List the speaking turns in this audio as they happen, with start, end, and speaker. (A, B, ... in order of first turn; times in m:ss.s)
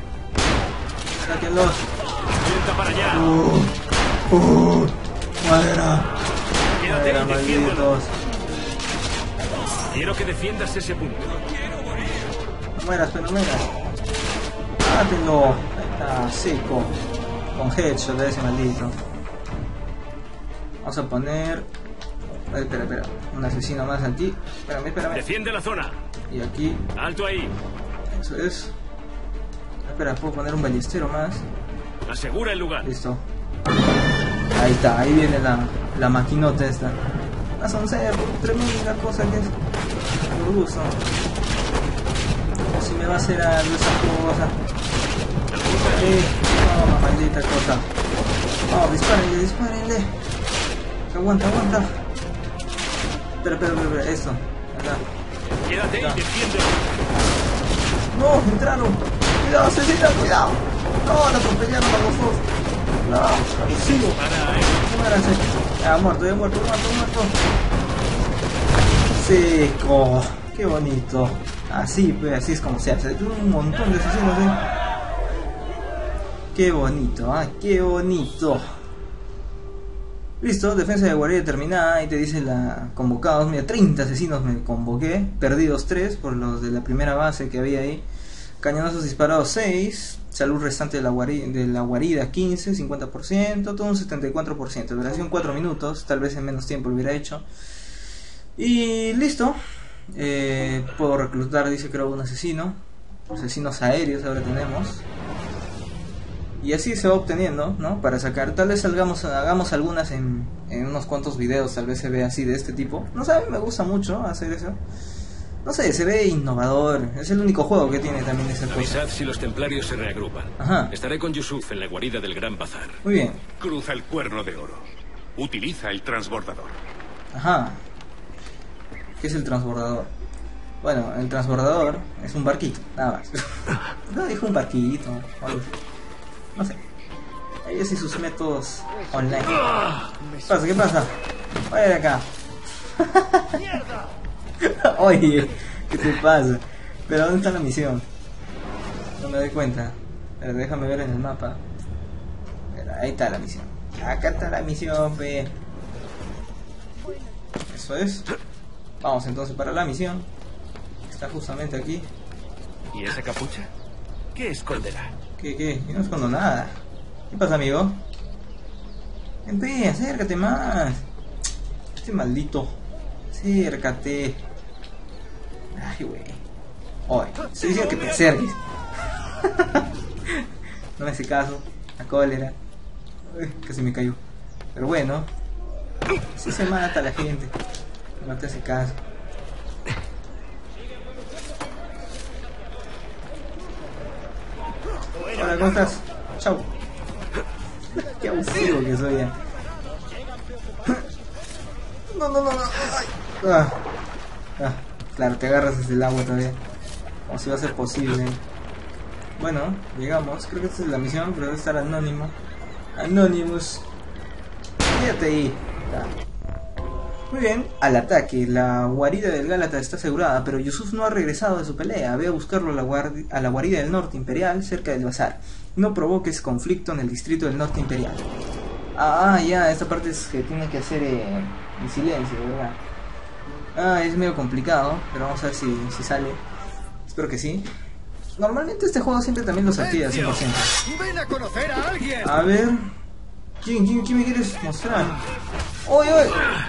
0:01.2-0:01.9 A
0:02.4-0:03.2 B
0:03.0-0:06.1 A
0:06.8-0:08.2 A
0:06.8-0:07.7 B
0:09.9-0:11.9 B
0:12.8-0:13.8 A
0:14.8-0:17.0 A
0:17.5-0:19.0 A
0:20.8-0:21.7 A
0:22.3-0:25.3 A
0:25.1-0:26.0 B
0:26.3-0:26.9 A
0:27.0-0:27.5 B
0:28.1-0:28.7 A
0:29.8-0:31.5 A
0:32.1-0:32.9 B
0:32.8-0:33.2 A
0:34.5-0:37.0 A
0:37.6-0:39.6 A
0:40.3-0:41.0 A
0:42.7-0:44.6 A
0:45.5-0:46.2 B
0:45.7-0:47.9 A
0:48.7-0:50.2 A
0:51.1-0:52.0 A
0:53.4-0:55.0 A
0:55.7-0:56.8 B
0:55.8-0:56.3 A
0:58.1-1:02.5 A
1:03.0-1:07.4 A
1:04.2-1:04.6 B
1:09.1-1:14.6 A
1:16.5-1:18.8 A
1:20.4-1:28.1 A
1:28.6-1:37.5 A
1:38.6-1:39.6 A
1:40.1-1:45.0 A
1:46.6-1:54.8 A
1:55.6-1:59.0 A
1:58.7-2:03.0 B
2:00.6-2:00.9 A
2:03.0-2:03.4 A
2:03.6-2:06.8 C
2:07.3-2:07.8 A
2:09.2-2:10.1 A
2:10.8-2:15.7 A
2:16.6-2:16.8 A
2:17.6-2:19.8 A
2:20.5-2:21.2 A
2:21.7-2:22.3 A
2:23.0-2:23.6 A
2:24.6-2:28.1 A
2:29.2-2:31.6 A
2:32.7-2:35.5 A
2:37.7-2:38.3 A
2:39.0-2:40.3 A
2:41.1-2:42.1 A
2:42.9-2:43.7 B
2:44.4-2:45.1 B
2:45.4-2:48.0 A
2:49.5-2:51.0 A
2:52.0-2:52.8 A
2:53.3-2:54.4 A
2:55.7-2:56.4 A
2:57.1-2:58.6 A
2:59.4-3:02.6 A
3:03.2-3:04.2 A
3:04.7-3:05.3 A
3:06.4-3:07.6 A
3:08.2-3:09.0 A
3:15.3-3:16.7 A
3:18.0-3:19.4 A
3:22.1-3:23.8 A
3:24.6-3:26.6 A
3:27.3-3:28.4 A
3:29.4-3:32.4 A
3:33.0-3:33.8 A
3:34.8-3:36.2 A
3:37.3-3:48.3 A
3:49.0-3:52.8 A
3:53.8-3:56.4 A
3:57.1-3:57.7 A
3:58.4-4:00.8 A
3:59.8-4:02.4 D
4:02.2-4:03.0 A
4:03.6-4:05.2 A
4:05.8-4:06.5 A